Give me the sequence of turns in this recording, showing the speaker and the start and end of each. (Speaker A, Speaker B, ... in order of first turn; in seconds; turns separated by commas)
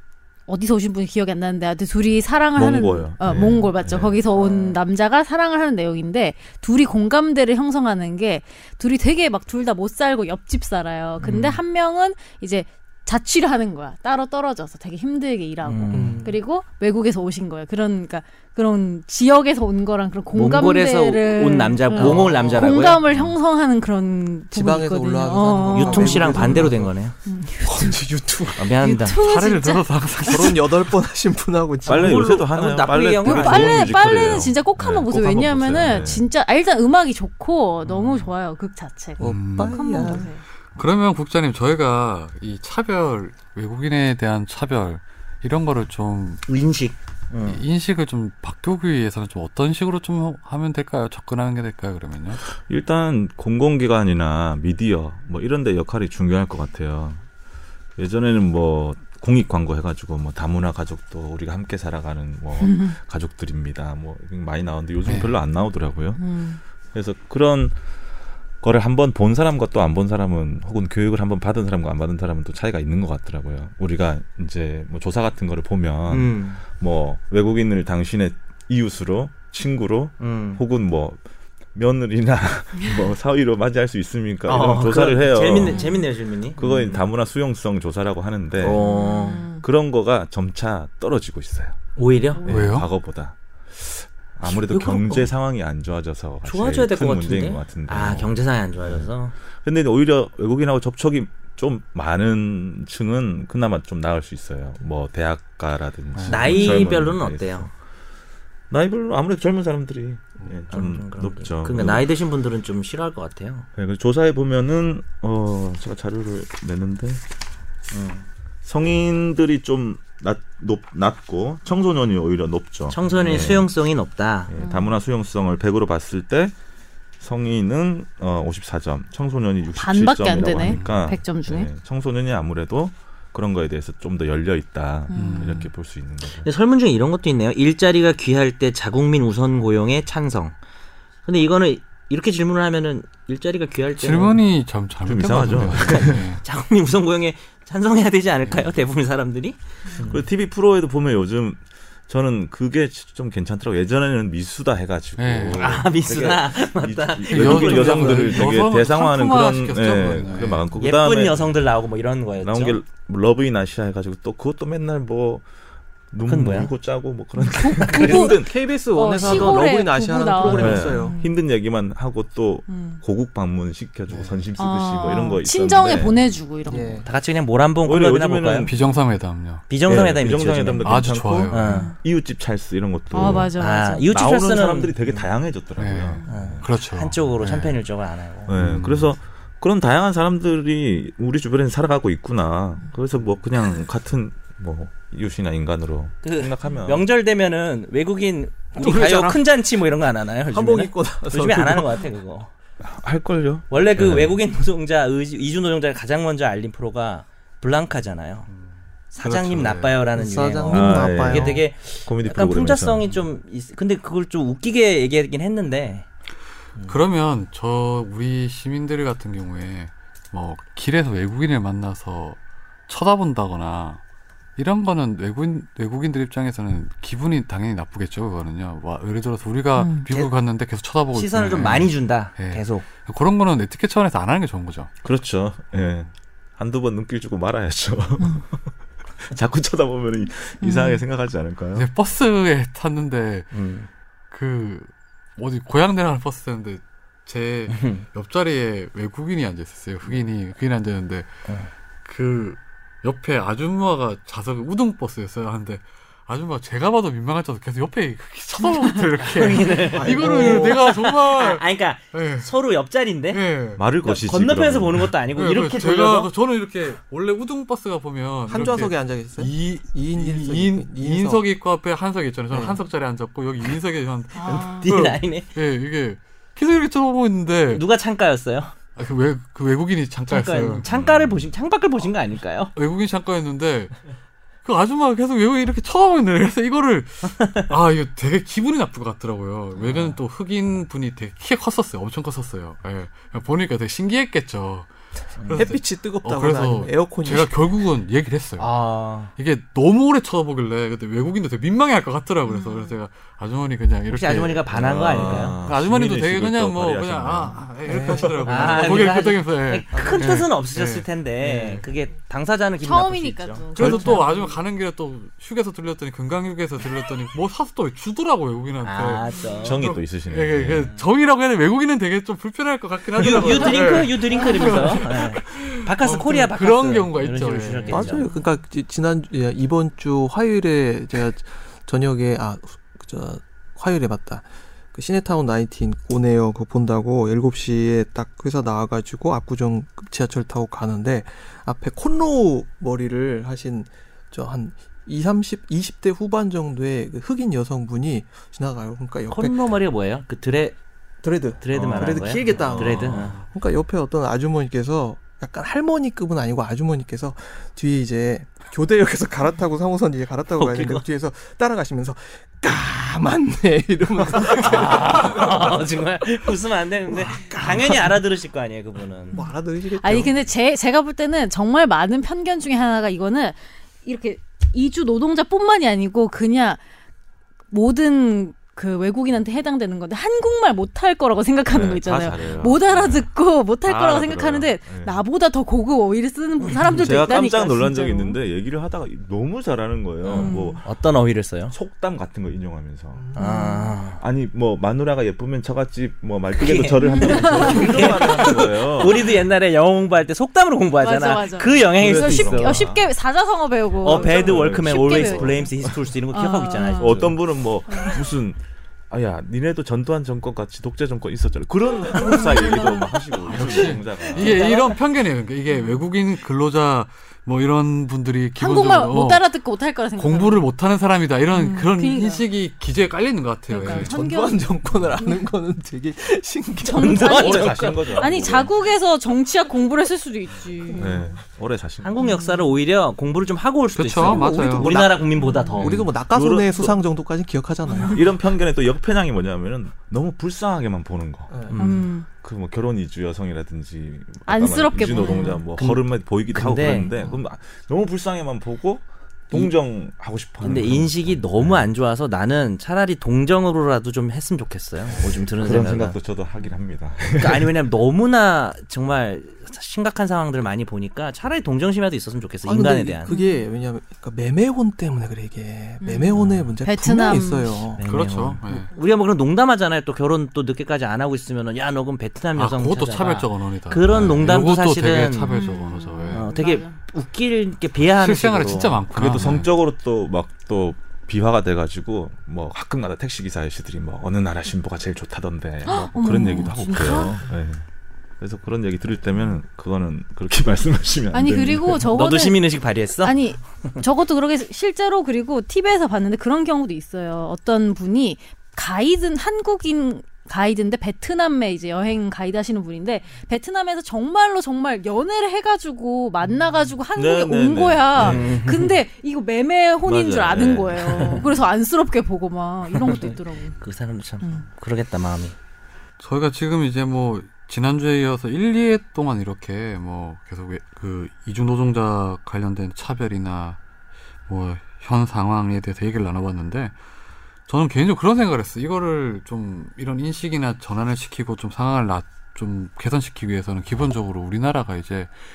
Speaker A: 0.5-26.7, Speaker B: 2.5-4.2, Speaker C: 4.3-4.8, Speaker C: 11.2-11.6, Speaker C: 15.6-16.2, Speaker D: 15.9-16.4, Speaker C: 20.3-23.0, Speaker D: 21.9-22.7, Speaker D: 24.5-26.9, Speaker C: 25.7-27.1, Speaker A: 27.2-28.0, Speaker D: 27.6-29.0, Speaker C: 28.6-29.2, Speaker A: 28.8-30.5, Speaker E: 29.1-30.8, Speaker D: 30.2-32.4, Speaker C: 31.9-34.0, Speaker B: 31.9-36.3, Speaker A: 33.1-40.4, Speaker D: 39.2-40.3, Speaker E: 39.2-46.5, Speaker C: 46.5-47.6, Speaker E: 47.5-52.4, Speaker B: 52.5-57.2, Speaker B: 58.0-66.4, Speaker A: 62.6-63.0, Speaker E: 65.1-65.3, Speaker A: 66.2-66.6, Speaker B: 66.9-67.8, Speaker B: 68.6-81.2, Speaker C: 76.1-76.6, Speaker C: 80.2-80.6, Speaker B: 81.8-91.8, Speaker C: 84.5-87.0, Speaker A: 85.7-86.0, Speaker C: 88.6-89.5, Speaker A: 88.8-89.7, Speaker C: 92.0-92.5, Speaker B: 92.4-107.7, Speaker E: 92.5-92.9, Speaker C: 94.4-95.3, Speaker C: 96.4-99.4, Speaker E: 106.1-106.8, Speaker C: 106.3-107.7, Speaker A: 106.5-106.8, Speaker B: 108.7-112.1, Speaker C: 110.7-113.7, Speaker B: 113.8-117.2, Speaker C: 117.9-118.3, Speaker B: 118.6-123.7, Speaker C: 122.9-124.5, Speaker B: 124.5-126.5, Speaker A: 124.6-124.9, Speaker B: 127.2-136.5, Speaker A: 129.8-131.7, Speaker E: 130.6-131.0, Speaker A: 135.1-135.7, Speaker E: 135.1-135.7, Speaker C: 136.4-140.6, Speaker C: 141.2-144.4, Speaker E: 144.0-146.4, Speaker B: 145.0-146.3, Speaker C: 145.7-150.3, Speaker B: 150.0-161.6, Speaker E: 155.2-155.8, Speaker C: 155.6-158.6, Speaker E: 157.3-160.7, Speaker C: 160.8-162.8, Speaker B: 162.4-165.4, Speaker B: 166.1-168.6, Speaker C: 166.3-166.7, Speaker A: 167.5-171.3, Speaker D: 168.0-171.2, Speaker B: 169.2-169.6, Speaker B: 170.4-176.3, Speaker A: 172.7-173.0, Speaker E: 174.1-174.4, Speaker A: 174.6-177.0, Speaker D: 176.7-177.1, Speaker C: 177.0-178.7, Speaker B: 177.8-178.7, Speaker E: 178.6-179.7, Speaker C: 179.7-181.9, Speaker B: 179.8-186.7, Speaker E: 180.8-181.9, Speaker A: 181.6-182.0, Speaker A: 183.1-184.1, Speaker C: 183.6-185.2, Speaker E: 185.8-187.8, Speaker C: 186.3-188.5, Speaker B: 188.5-197.1, Speaker E: 188.6-189.1, Speaker C: 196.2-202.5, Speaker D: 198.8-199.5, Speaker D: 200.5-202.1, Speaker B: 202.8-204.4, Speaker C: 203.7-208.5, Speaker C: 209.1-216.1, Speaker E: 209.2-209.9, Speaker D: 209.3-211.6, Speaker B: 210.7-213.1, Speaker E: 216.9-224.0, Speaker E: 224.6-234.9, Speaker A: 229.8-230.1, Speaker C: 231.1-232.8, Speaker B: 235.0-238.7, Speaker A: 238.2-238.4, Speaker B: 239.2-241.9, Speaker A: 240.6-241.0, Speaker E: 241.8-243.6, Speaker C: 243.5-243.9, Speaker E: 244.3-251.3, Speaker C: 247.7-248.0, Speaker E: 252.1-262.5, Speaker A: 258.6-259.1, Speaker C: 259.2-263.4, Speaker D: 259.9-260.9, Speaker E: 263.3-263.8, Speaker B: 263.8-265.1, Speaker C: 264.0-266.3, Speaker E: 265.3-277.8, Speaker D: 268.5-271.4, Speaker D: 272.5-272.8, Speaker A: 274.4-274.9, Speaker C: 274.5-275.5, Speaker C: 277.7-278.7, Speaker E: 279.0-280.9, Speaker C: 280.3-282.7, Speaker B: 280.8-281.5, Speaker E: 282.8-284.0, Speaker E: 284.6-298.7, Speaker C: 287.4-287.6, Speaker C: 289.8-290.2, Speaker C: 295.4-295.7, Speaker D: 295.5-297.8, Speaker C: 298.6-299.3, Speaker E: 299.4-311.9, Speaker A: 302.5-303.0, Speaker C: 304.1-305.6, Speaker B: 304.7-307.6, Speaker D: 307.9-309.2, Speaker C: 308.4-313.6, Speaker D: 309.9-310.4, Speaker A: 312.8-314.6, Speaker E: 313.8-328.1, Speaker D: 313.8-314.1, Speaker C: 318.8-319.9, Speaker B: 319.6-320.9, Speaker C: 320.8-321.1, Speaker C: 323.1-328.3, Speaker A: 323.5-324.8, Speaker D: 327.9-349.7, Speaker A: 328.1-328.4, Speaker C: 349.3-350.8, Speaker D: 351.2-365.9, Speaker C: 351.6-353.4, Speaker B: 351.7-353.4, Speaker C: 360.6-361.1, Speaker C: 364.4-369.4, Speaker D: 367.1-368.2, Speaker D: 369.3-370.4, Speaker A: 369.3-376.8, Speaker A: 377.7-388.4, Speaker B: 381.7-385.2, Speaker C: 386.6-387.1, Speaker B: 387.0-390.9, Speaker C: 390.2-391.8, Speaker A: 390.3-390.8, Speaker B: 391.7-393.4, Speaker D: 393.1-393.7, Speaker C: 393.4-394.2, Speaker A: 393.4-394.0, Speaker B: 394.2-399.4, Speaker C: 396.6-402.9, Speaker A: 397.1-398.1, Speaker A: 401.0-405.7, Speaker B: 401.8-403.1, Speaker C: 404.0-407.4, Speaker B: 404.0-406.0, Speaker A: 406.3-407.4, Speaker B: 406.9-414.8, Speaker A: 407.9-408.2, Speaker A: 412.0-413.0, Speaker E: 413.4-419.5, Speaker A: 413.8-415.0, Speaker C: 414.4-414.9, Speaker A: 415.7-416.1, Speaker A: 418.6-420.6, Speaker E: 420.2-424.1, Speaker A: 421.5-422.4, Speaker A: 423.7-425.4, Speaker D: 423.9-427.4, Speaker A: 426.9-431.2, Speaker C: 426.9-428.2, Speaker B: 427.2-428.7, Speaker D: 430.9-431.3, Speaker B: 431.0-432.3, Speaker C: 432.0-436.1, Speaker A: 432.2-432.8, Speaker E: 434.0-434.9, Speaker D: 434.2-438.2, Speaker B: 435.0-437.0, Speaker A: 435.4-435.9, Speaker A: 437.9-438.2, Speaker B: 438.0-451.9, Speaker D: 441.5-441.8, Speaker A: 441.8-442.3, Speaker A: 444.5-445.6, Speaker C: 445.3-447.2, Speaker C: 450.6-456.2, Speaker B: 455.2-457.7, Speaker C: 457.4-463.3, Speaker D: 462.6-468.0, Speaker A: 463.3-463.6, Speaker A: 466.0-467.8, Speaker C: 468.0-475.6, Speaker E: 468.0-468.9, Speaker E: 472.6-476.5, Speaker A: 475.5-477.0, Speaker C: 476.3-479.1, Speaker E: 478.1-479.7, Speaker B: 479.1-487.8, Speaker A: 485.9-487.4, Speaker B: 488.4-492.2, Speaker A: 491.3-492.7, Speaker C: 492.1-494.0, Speaker A: 493.2-513.8, Speaker B: 507.1-508.6, Speaker C: 508.2-509.0, Speaker B: 510.1-511.5, Speaker C: 511.1-511.5, Speaker C: 512.9-515.6, Speaker E: 516.2-523.8, Speaker E: 524.5-526.9, Speaker E: 527.7-535.3